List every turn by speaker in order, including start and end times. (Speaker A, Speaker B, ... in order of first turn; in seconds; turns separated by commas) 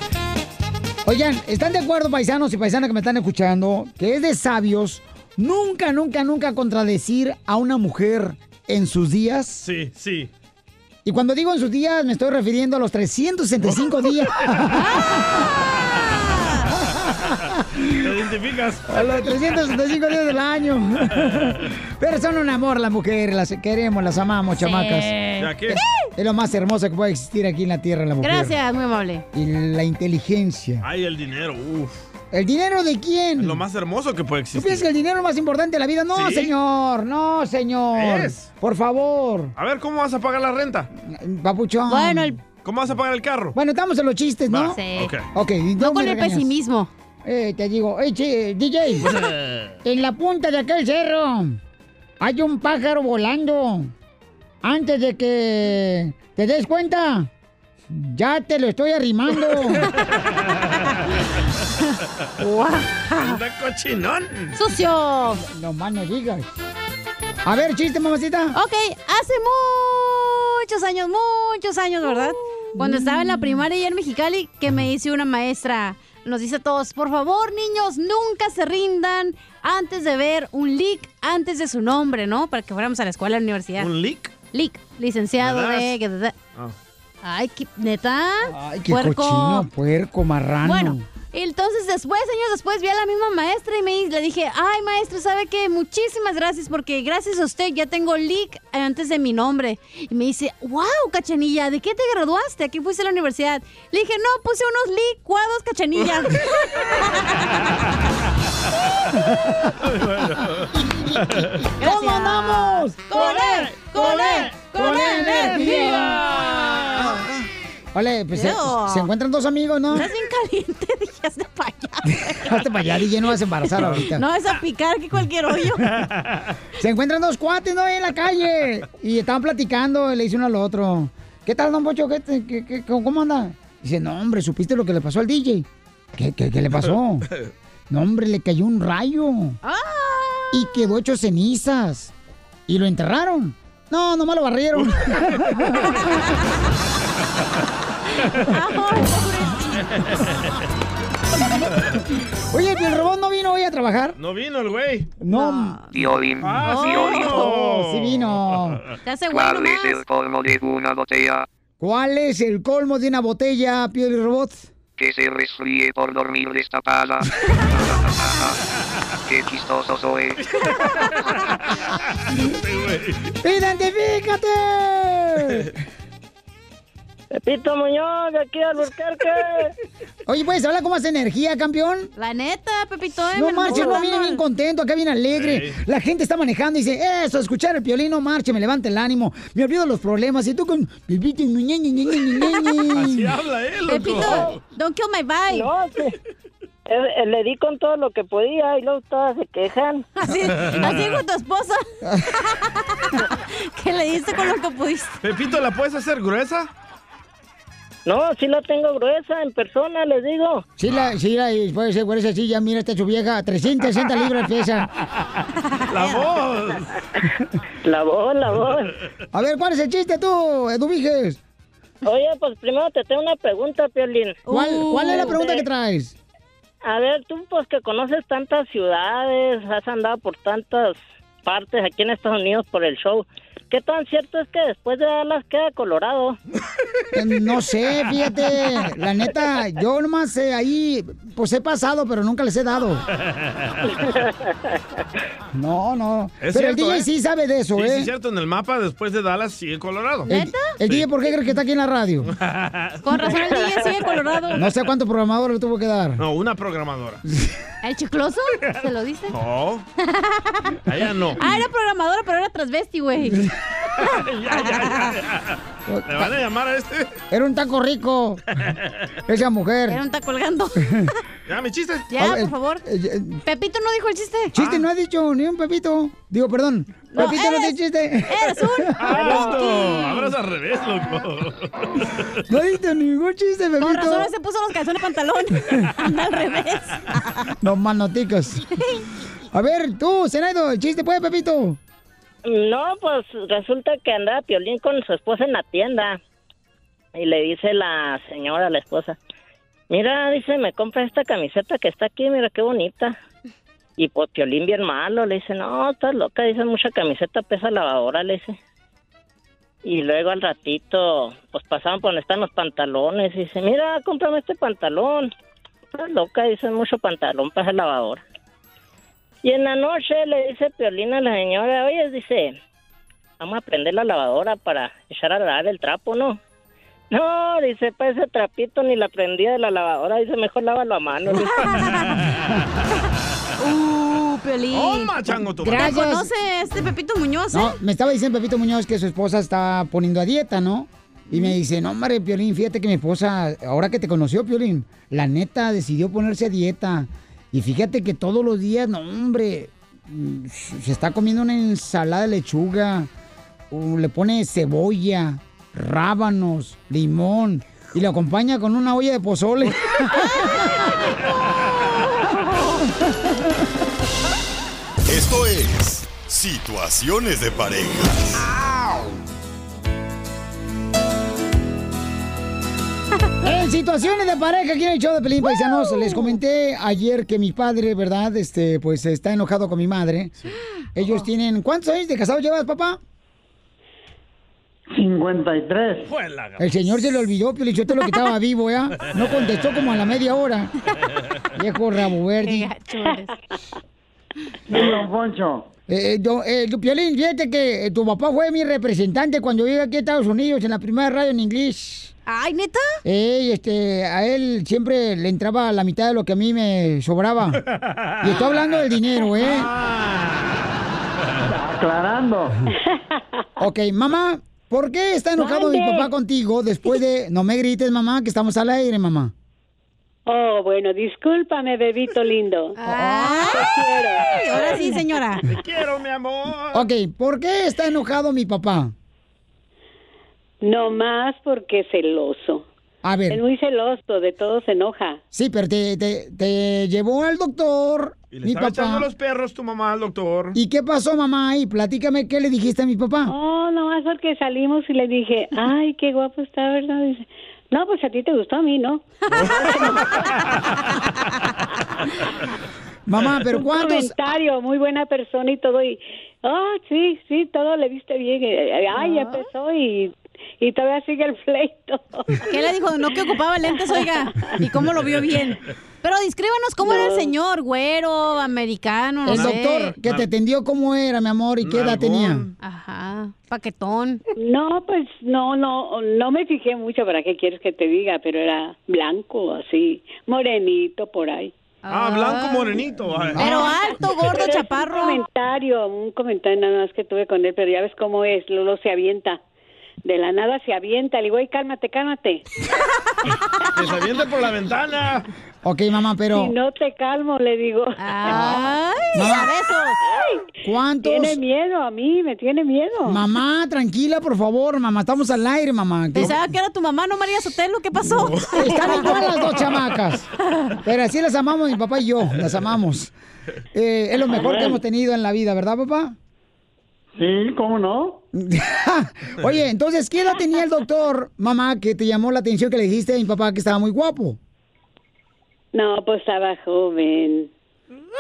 Speaker A: 1.1-9.7, Speaker B: 9.6-10.3, Speaker A: 11.1-15.0, Speaker C: 16.1-16.6, Speaker B: 17.9-19.4, Speaker A: 18.9-25.1, Speaker C: 24.6-26.1, Speaker B: 25.4-25.8, Speaker A: 26.2-28.6, Speaker C: 28.2-29.2, Speaker A: 29.3-30.9, Speaker B: 30.8-32.0, Speaker A: 32.3-33.6, Speaker B: 33.4-34.9, Speaker A: 34.5-39.5, Speaker B: 36.1-36.5, Speaker B: 37.9-38.5, Speaker B: 39.6-40.9, Speaker A: 41.0-42.4, Speaker C: 41.9-42.4, Speaker B: 42.6-43.5, Speaker A: 43.5-44.8, Speaker B: 44.5-45.3, Speaker C: 44.6-45.1, Speaker A: 45.3-46.5, Speaker C: 45.8-46.9, Speaker A: 47.2-49.1, Speaker B: 49.0-49.8, Speaker A: 49.8-51.6, Speaker A: 52.2-53.9, Speaker A: 54.6-57.3, Speaker A: 57.9-59.9, Speaker C: 62.4-63.4, Speaker B: 63.2-64.6, Speaker C: 64.5-65.4, Speaker A: 65.4-66.5, Speaker A: 67.5-68.6, Speaker C: 68.5-83.9, Speaker B: 83.8-84.3, Speaker C: 84.5-86.3, Speaker B: 85.4-86.0, Speaker C: 87.2-89.7, Speaker A: 88.5-91.0, Speaker C: 90.6-107.7, Speaker B: 109.7-111.7, Speaker A: 110.8-113.2, Speaker C: 111.8-117.1, Speaker B: 113.1-114.5, Speaker A: 114.0-116.4, Speaker B: 115.7-117.2, Speaker A: 117.9-120.1, Speaker C: 118.3-119.1, Speaker C: 119.9-122.6, Speaker A: 122.1-124.2, Speaker C: 123.8-126.0, Speaker B: 123.8-124.0, Speaker B: 125.9-126.5, Speaker A: 126.8-137.3, Speaker A: 137.9-139.6, Speaker C: 139.6-140.7, Speaker A: 140.5-142.1, Speaker A: 142.7-146.0, Speaker B: 144.8-145.3, Speaker C: 148.3-149.9, Speaker A: 152.5-154.2, Speaker B: 154.2-155.1, Speaker A: 155.2-155.8, Speaker C: 155.3-155.9, Speaker D: 155.9-157.3, Speaker B: 156.4-158.8, Speaker C: 156.6-157.5, Speaker A: 157.3-158.8, Speaker C: 159.1-160.0, Speaker D: 159.3-161.5, Speaker A: 161.8-164.7, Speaker D: 165.0-168.6, Speaker D: 169.3-170.4, Speaker B: 172.3-173.3, Speaker A: 173.4-175.7, Speaker E: 177.3-179.7, Speaker A: 180.3-182.1, Speaker C: 182.2-184.4, Speaker A: 183.3-193.3, Speaker B: 185.3-185.8, Speaker B: 192.9-194.6, Speaker C: 193.9-195.7, Speaker E: 195.5-196.1, Speaker E: 196.9-200.1, Speaker C: 200.2-205.2, Speaker B: 200.6-201.2, Speaker A: 202.0-202.3, Speaker B: 205.2-206.7, Speaker E: 208.1-210.7, Speaker A: 210.8-214.9, Speaker C: 215.7-216.3, Speaker B: 215.9-217.0, Speaker E: 217.8-218.9, Speaker A: 219.3-221.4, Speaker E: 222.1-224.4, Speaker C: 224.5-225.4, Speaker A: 224.5-226.2, Speaker E: 225.1-225.7, Speaker E: 226.8-236.4, Speaker A: 237.1-243.0, Speaker A: 245.5-248.1, Speaker B: 246.4-247.1, Speaker B: 247.7-250.3, Speaker C: 250.3-250.8, Speaker A: 250.3-252.3, Speaker B: 252.3-253.2, Speaker C: 253.0-254.7, Speaker A: 254.6-256.2, Speaker B: 256.2-257.2, Speaker C: 257.8-259.4, Speaker B: 259.3-259.8, Speaker C: 260.0-260.8, Speaker B: 260.9-261.5, Speaker C: 261.4-263.5, Speaker B: 264.0-267.2, Speaker C: 264.0-265.2, Speaker A: 265.9-266.3, Speaker A: 267.3-268.4, Speaker A: 269.3-270.0, Speaker C: 269.9-271.1, Speaker A: 270.8-271.1, Speaker B: 271.5-272.1, Speaker C: 272.1-272.8, Speaker A: 272.2-273.4, Speaker C: 273.5-274.5, Speaker A: 274.5-279.3, Speaker B: 274.6-274.9, Speaker C: 277.1-277.8, Speaker C: 278.3-280.4, Speaker B: 279.0-282.3, Speaker A: 282.5-284.3, Speaker C: 283.8-287.5, Speaker A: 287.6-288.7, Speaker A: 289.5-291.8, Speaker E: 292.4-296.2, Speaker E: 297.1-299.2, Speaker E: 299.9-303.2, Speaker E: 304.0-308.6, Speaker E: 309.8-315.3, Speaker E: 315.9-318.2, Speaker E: 319.4-322.6, Speaker E: 323.4-326.4, Speaker E: 327.1-331.7, Speaker C: 331.5-332.2, Speaker B: 331.6-332.3, Speaker C: 333.6-337.8, Speaker B: 334.7-336.1, Speaker A: 335.6-336.3, Speaker A: 337.5-353.1, Speaker A: 353.7-360.8, Speaker F: 365.1-368.4, Speaker A: 373.4-380.3, Speaker C: 375.9-376.3, Speaker A: 380.9-383.0, Speaker G: 384.9-386.1, Speaker B: 386.1-387.1, Speaker A: 386.6-390.7, Speaker A: 391.6-392.7, Speaker C: 392.4-393.3, Speaker G: 394.7-395.7, Speaker A: 395.9-402.1, Speaker C: 402.3-403.0, Speaker A: 403.1-407.6, Speaker B: 407.8-408.8, Speaker A: 408.2-409.7, Speaker B: 409.4-410.7, Speaker G: 411.4-412.6, Speaker H: 412.8-413.2, Speaker A: 413.6-419.3, Speaker H: 415.4-416.1, Speaker H: 420.3-422.8, Speaker C: 422.8-423.7, Speaker A: 422.8-423.6, Speaker H: 423.5-424.8, Speaker C: 424.3-425.5, Speaker B: 424.3-424.7, Speaker B: 425.5-426.9, Speaker A: 426.7-428.9, Speaker H: 430.6-432.7, Speaker A: 433.0-433.4, Speaker H: 433.3-435.2, Speaker A: 435.3-439.1, Speaker B: 438.3-440.6, Speaker A: 440.5-443.3, Speaker H: 443.3-450.3, Speaker A: 453.1-454.1, Speaker H: 453.6-462.6, Speaker C: 459.0-459.4, Speaker C: 462.5-469.9, Speaker H: 463.7-464.6, Speaker H: 466.8-467.3, Speaker A: 469.3-472.5, Speaker B: 469.3-470.3, Speaker B: 471.6-472.5, Speaker C: 472.6-474.2, Speaker H: 474.4-481.5, Speaker C: 481.9-482.8, Speaker B: 481.9-483.6, Speaker A: 483.1-483.7, Speaker C: 483.4-485.2, Speaker H: 483.9-489.4, Speaker H: 490.0-492.4, Speaker B: 493.7-495.3, Speaker A: 495.6-496.5, Speaker H: 496.3-498.6, Speaker C: 498.0-500.0, Speaker A: 498.3-499.5, Speaker H: 500.0-500.5, Speaker A: 500.6-501.4, Speaker H: 501.0-503.2, Speaker A: 503.1-506.4, Speaker C: 506.1-509.4, Speaker B: 508.2-508.8, Speaker A: 508.5-510.3, Speaker B: 509.4-509.6, Speaker A: 510.8-513.1, Speaker A: 513.7-516.2, Speaker G: 514.4-514.8, Speaker G: 517.1-518.2, Speaker A: 518.4-524.4, Speaker H: 525.7-527.5